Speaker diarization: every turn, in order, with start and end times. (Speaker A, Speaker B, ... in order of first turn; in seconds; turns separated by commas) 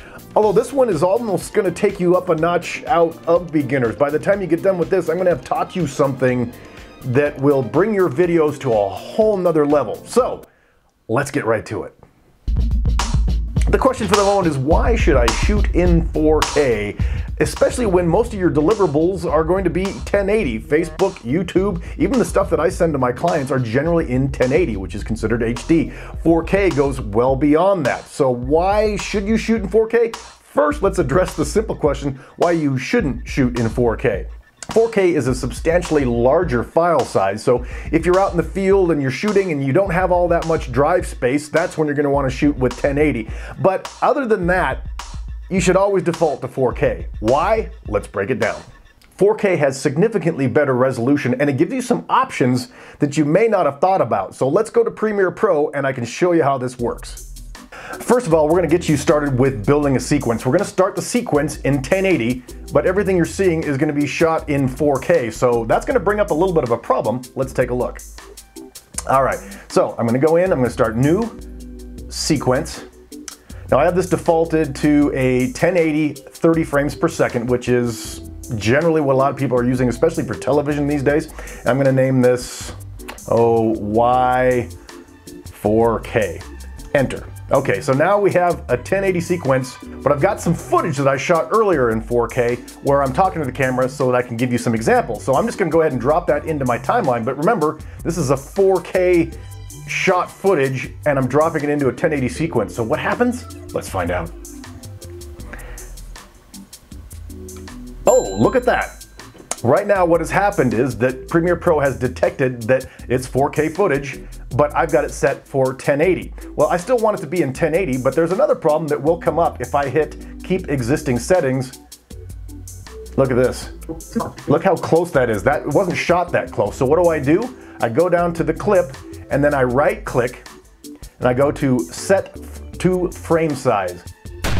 Speaker A: 0.3-10.5, Speaker A: 11.1-12.0, Speaker A: 13.7-44.8, Speaker A: 45.5-48.6, Speaker A: 49.1-57.2, Speaker A: 58.0-68.0, Speaker A: 69.1-71.4, Speaker A: 72.1-72.9, Speaker A: 73.7-82.8, Speaker A: 83.3-84.7, Speaker A: 85.5-99.3, Speaker A: 99.8-104.3, Speaker A: 108.0-109.0, Speaker A: 109.6-121.8, Speaker A: 123.2-130.5, Speaker A: 131.2-134.1